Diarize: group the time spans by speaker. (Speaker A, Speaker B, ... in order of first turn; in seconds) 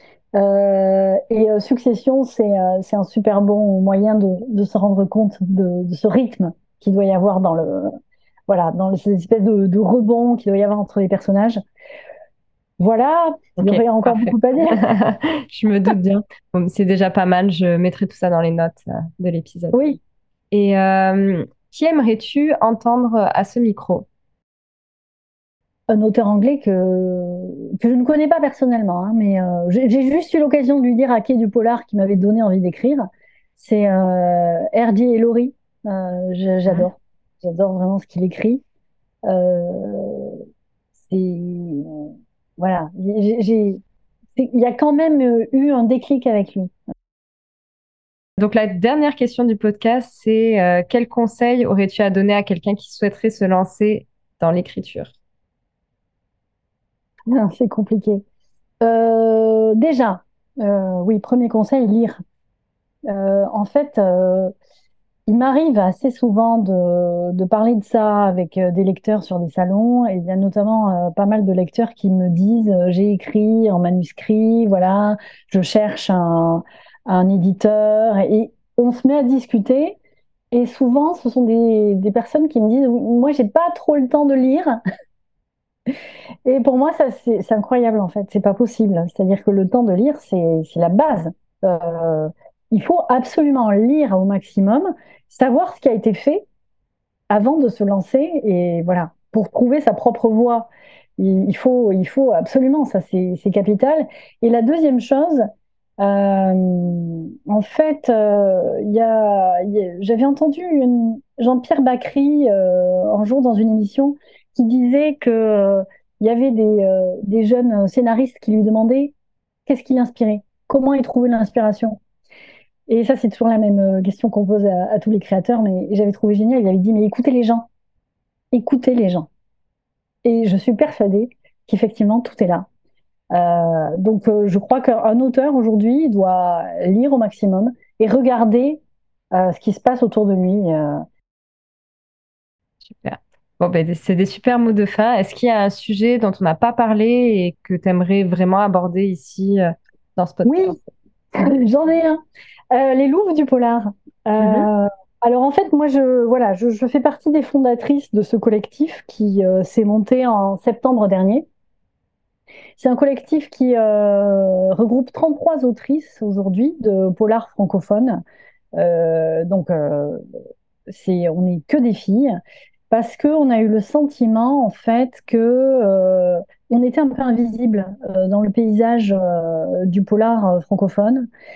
Speaker A: 0.3-7.9, 8.5-11.6, 12.8-14.8, 19.7-20.0, 25.9-33.0, 33.5-38.6, 39.3-40.4, 41.0-43.8, 44.4-46.7, 57.3-58.2, 58.8-62.2, 63.1-64.5, 65.3-80.0, 80.5-84.8, 86.5-96.4, 97.3-105.4, 106.0-119.1, 119.7-122.0, 122.9-127.7, 128.5-129.3, 130.2-132.7, 133.3-141.0, 150.4-150.8, 151.3-152.2, 152.7-161.4, 162.8-168.2, 168.8-170.2, 170.9-172.4, 172.9-181.3
Speaker B: 13.6-19.9, 20.5-24.1, 48.4-55.1, 142.8-150.8, 154.4-154.7